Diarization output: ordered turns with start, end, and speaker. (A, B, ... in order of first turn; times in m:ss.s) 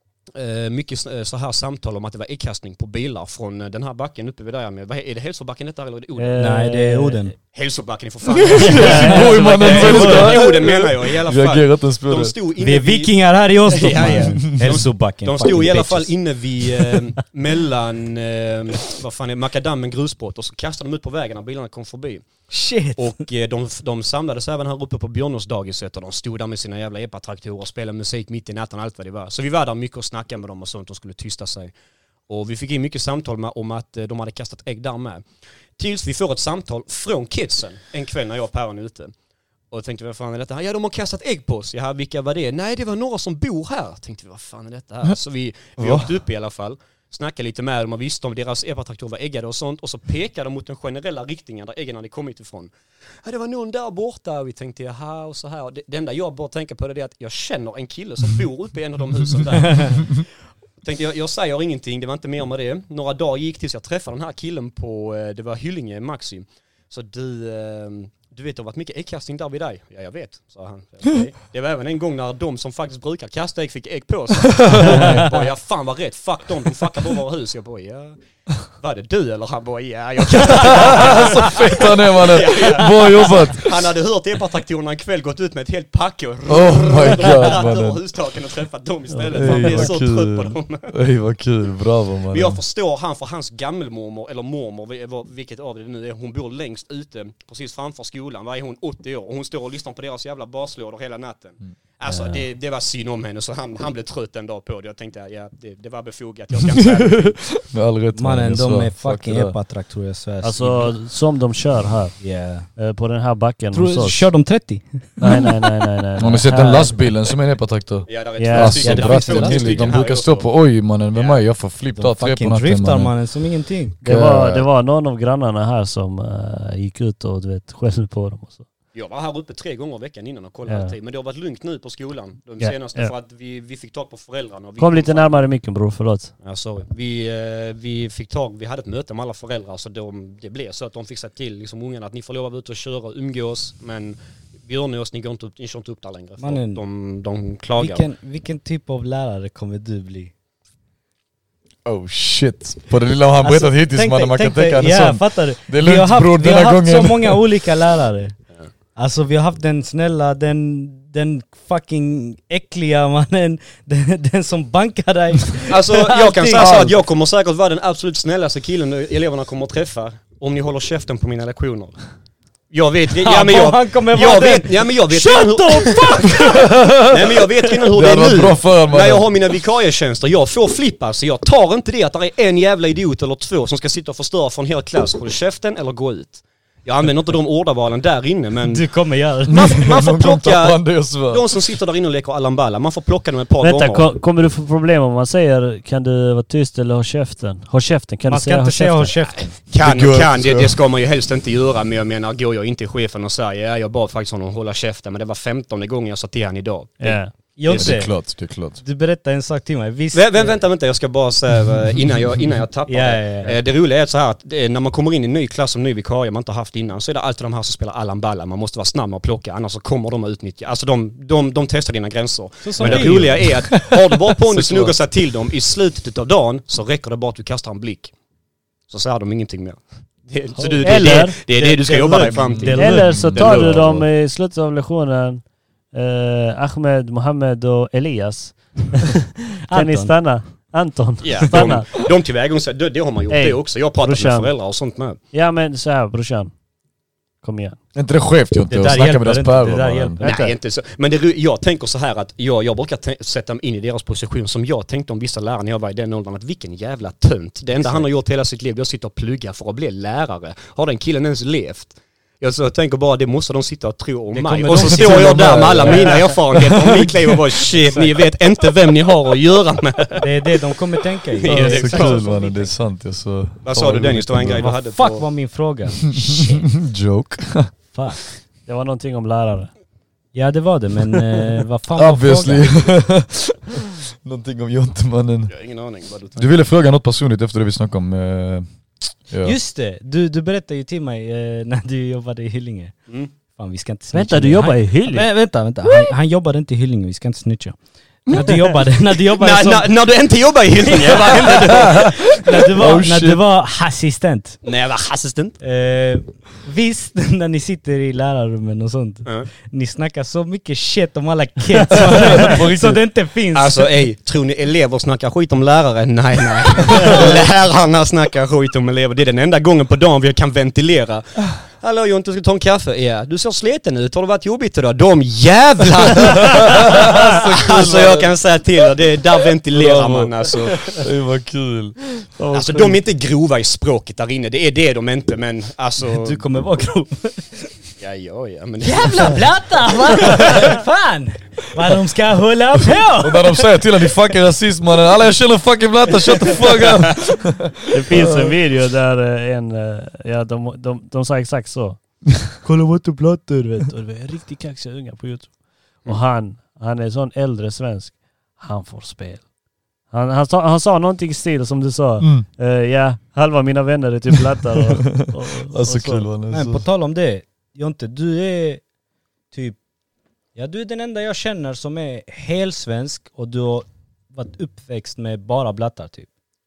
0:00.4-0:06.6 A
0:06.2-0:07.2 B
0:06.4-0:07.4 C
0:07.5-0:13.1 A
0:08.4-0:12.4 D
0:08.6-0:10.0 B
0:08.8-0:10.4 C
0:12.6-0:17.0 C
0:13.6-0:22.3 A
0:14.0-0:14.5 D
0:22.5-0:23.1 C
0:23.0-0:31.7 A
0:32.3-0:35.2 A
0:35.8-0:39.1 A
0:39.7-0:52.7 A
0:45.8-0:46.1 D
0:53.2-1:00.2 A
1:00.8-1:18.2 A
1:14.4-1:15.3 D
1:15.0-1:15.3 C
1:18.8-1:30.9 A
1:20.3-1:23.8 D
1:26.5-1:28.0 D
1:29.1-1:29.9 B
1:29.4-1:32.6 D
1:32.3-1:47.6 A
1:46.7-1:49.6 D
1:48.2-1:51.0 C
1:50.4-1:52.2 B
1:52.2-1:52.7 C
1:52.8-1:54.3 B
1:53.7-1:55.4 C
1:55.2-1:57.0 B
1:56.2-2:03.1 D
1:58.1-2:00.5 A
1:58.4-1:58.9 B
1:58.8-1:59.9 C
2:01.1-2:01.4 A
2:02.0-2:04.0 C
2:04.0-2:04.7 D
2:04.0-2:08.7 B
2:08.9-2:15.4 A
2:10.7-2:11.0 B
2:12.6-2:13.1 B
2:14.8-2:16.3 B
2:16.4-2:28.1 A
2:26.4-2:26.8 C
2:27.8-2:30.3 C
2:31.8-2:37.4 D
2:33.4-2:38.4 C
2:39.0-2:46.9 C
2:45.7-2:52.0 A
2:46.6-2:46.9 D
2:52.7-3:08.8 A
2:53.2-2:56.7 C
2:56.3-2:57.4 D
2:57.9-2:59.3 D
3:08.6-3:09.8 C
3:09.5-3:14.1 A
3:09.5-3:11.5 D
3:13.6-3:19.2 B
3:18.3-3:19.6 C
3:19.7-3:27.2 A
3:19.8-3:20.8 D
3:27.0-3:27.3 B
3:27.6-3:28.2 C
3:27.7-3:28.8 D
3:28.8-3:30.6 C
3:30.1-3:48.1 A
3:32.9-3:33.6 C
3:42.6-3:43.6 C
3:42.8-3:43.9 D
3:44.5-3:45.0 D
3:48.9-3:53.8 A
3:50.7-3:53.8 C
3:50.8-3:51.4 B
3:52.4-3:54.0 D
3:52.7-4:02.0 B
3:59.7-4:00.1 C
4:01.2-4:05.2 A
4:03.3-4:04.5 B
4:05.3-4:06.5 B
4:07.4-4:07.8 B
4:08.0-4:10.2 D
4:08.7-4:10.4 C
4:10.2-4:10.5 B
4:10.2-4:30.3 A
4:17.8-4:18.1 C
4:24.3-4:26.3 C
4:24.7-4:27.1 D
4:27.8-4:28.2 C
4:30.2-4:32.7 C
4:31.3-4:32.3 A
4:31.5-4:34.7 D
4:33.6-4:35.2 A
4:34.6-4:36.6 C
4:36.2-4:37.7 D
4:37.9-4:38.2 C
4:38.7-4:39.7 B
4:40.3-4:42.9 C
4:42.0-4:45.5 D
4:45.5-4:46.6 A
4:46.4-4:48.7 D
4:49.3-4:49.6 D
4:49.4-4:52.9 C
4:53.6-4:59.9 C
4:54.1-4:55.3 B
4:59.3-5:02.4 A
5:00.8-5:04.6 C
5:01.9-5:03.4 D
5:04.6-5:05.6 A
5:05.6-5:13.9 C
5:11.9-5:13.0 D
5:13.5-5:31.0 A
5:17.0-5:17.3 D
5:26.2-5:28.3 D
5:29.7-5:32.0 D
5:32.4-5:33.0 B
5:32.5-5:36.4 A
5:36.1-5:37.7 C
5:38.0-5:39.5 A
5:38.8-5:43.7 C
5:40.3-5:40.6 A
5:43.2-5:48.6 D
5:47.9-5:52.0 B
5:52.6-5:53.9 C
5:53.8-5:59.5 B
6:00.1-6:06.3 B
6:02.2-6:02.5 D
6:05.0-6:06.8 D
6:06.5-6:08.8 C
6:09.5-6:09.8 C
6:10.6-6:16.3 C